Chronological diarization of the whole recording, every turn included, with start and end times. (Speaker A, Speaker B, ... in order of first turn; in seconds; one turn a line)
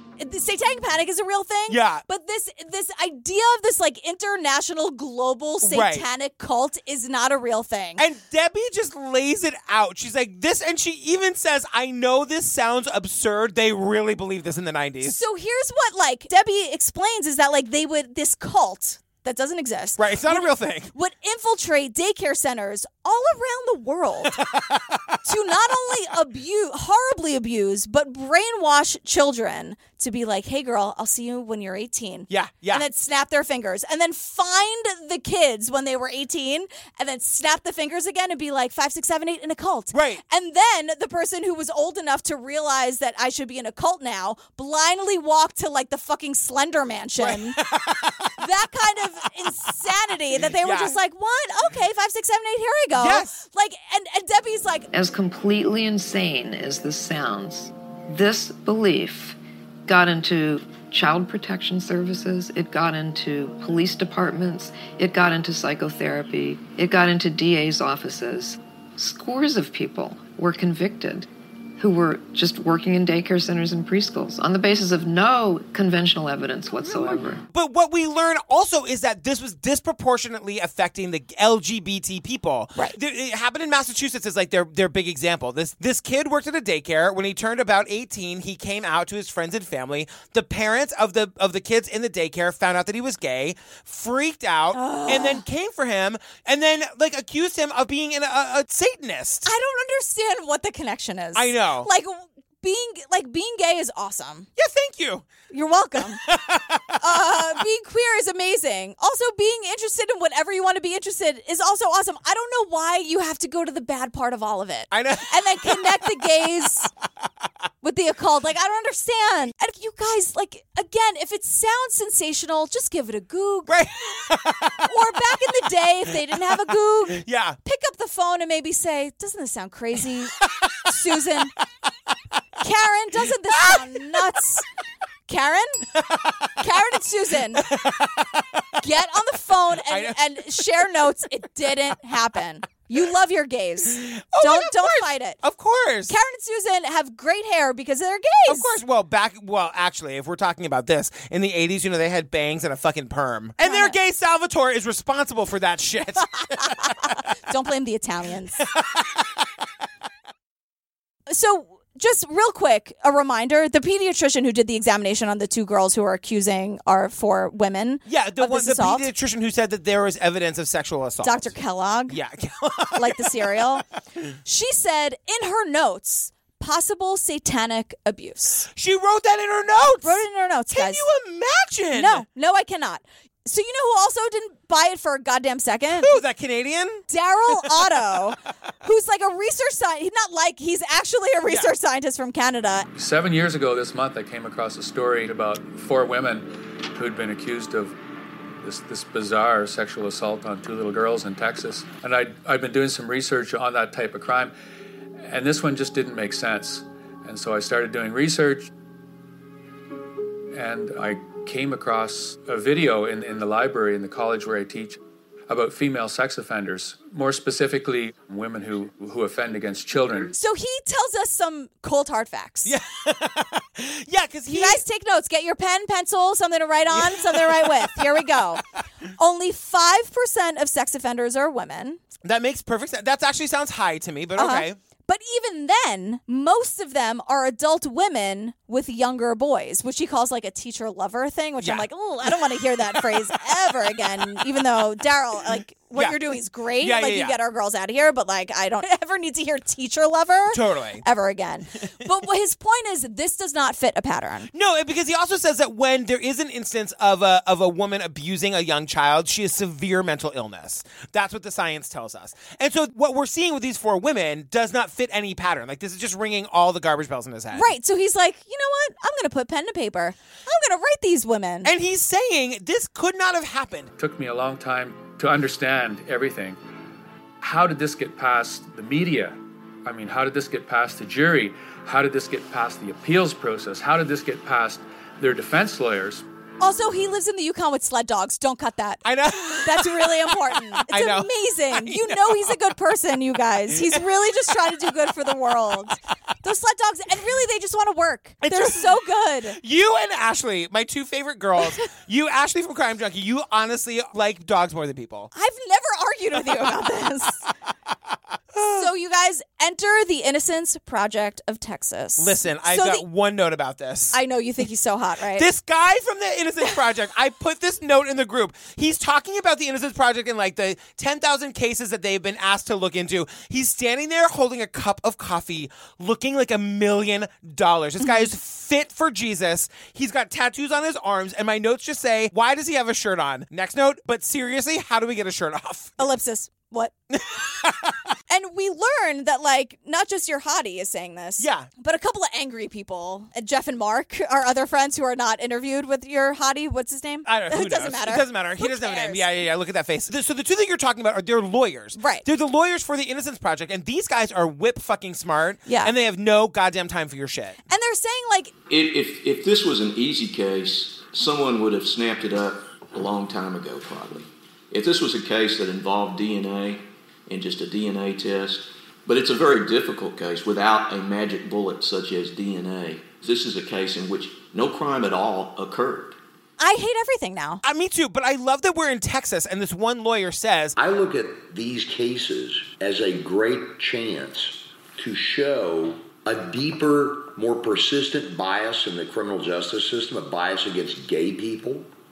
Speaker A: 0.2-8.0
Speaker B: 1.7-2.0
Speaker B: 5.6-6.1
Speaker B: 8.0-15.2
Speaker A: 15.0-24.4
Speaker B: 20.0-20.9
Speaker B: 24.3-25.2
Speaker A: 25.3-47.6
Speaker B: 32.3-32.9
Speaker B: 39.9-40.2
Speaker B: 47.2-48.3
Speaker A: 48.4-54.9
Speaker B: 50.6-51.0
Speaker B: 53.0-53.4
Speaker C: 54.9-77.4
Speaker B: 77.5-99.5
Speaker A: 94.7-95.4
Speaker A: 99.5-104.5
Speaker B: 101.3-101.9
Speaker B: 104.6-105.3
Speaker A: 105.5-106.2
Speaker B: 106.1-106.9
Speaker A: 107.0-116.9
Speaker B: 114.9-115.9
Speaker A: 117.8-123.7
Speaker B: 123.7-124.8
Speaker A: 124.9-130.3
Speaker B: 127.1-127.6
Speaker B: 130.4-130.7
Speaker A: 130.9-131.5
Speaker A: 132.6-134.7
Speaker B: 133.5-134.2
Speaker A: 135.3-135.9
Speaker B: 136.0-136.4
Speaker A: 136.6-137.7
Speaker B: 137.6-138.8
Speaker A: 138.8-145.4
Speaker B: 139.9-140.6
Speaker B: 143.9-146.1
Speaker A: 146.1-148.7
Speaker B: 148.5-156.9
Speaker A: 153.6-154.0
Speaker A: 156.8-158.6
Speaker A: 161.3-169.1
Speaker B: 168.1-171.6
Speaker A: 171.2-172.2
Speaker B: 172.1-173.6
Speaker A: 173.0-173.8
Speaker A: 174.5-178.7
Speaker B: 178.7-182.2
Speaker A: 179.9-181.1
Speaker A: 181.9-186.1
Speaker B: 186.0-187.0
Speaker A: 187.1-192.9
Speaker B: 191.5-191.7
Speaker D: 192.9-198.0
Speaker D: 198.6-204.5
Speaker D: 205.2-208.7
Speaker D: 210.5-220.3
Speaker A: 220.3-222.7
Speaker B: 222.7-224.8
Speaker A: 224.5-228.6
Speaker B: 226.9-228.3
Speaker A: 229.2-232.0
Speaker B: 232.2-234.8
Speaker A: 234.4-254.5
Speaker B: 241.6-241.9
Speaker B: 242.9-243.2
Speaker B: 245.9-246.2
Speaker B: 246.8-247.4
Speaker B: 250.5-251.0
Speaker B: 254.5-267.7
Speaker A: 267.5-271.7
Speaker B: 271.6-273.9
Speaker D: 274.0-276.6
Speaker D: 277.4-286.2
Speaker A: 286.6-299.6
Speaker B: 289.1-292.6
Speaker B: 298.4-299.0
Speaker B: 299.5-305.3
Speaker A: 305.3-307.4
Speaker B: 308.5-308.9
Speaker A: 308.8-313.1
Speaker B: 312.2-314.2
Speaker A: 314.1-315.5
Speaker B: 315.4-336.0
Speaker A: 328.0-328.3
Speaker A: 336.0-336.9
Speaker B: 337.1-337.9
Speaker A: 338.3-349.3
Speaker B: 341.4-341.7
Speaker B: 347.2-357.6
Speaker A: 352.0-352.3
Speaker A: 355.7-355.9
Speaker A: 357.7-358.5
Speaker E: 358.7-376.2
Speaker A: 376.6-377.6
Speaker B: 377.6-380.8
Speaker F: 380.8-391.9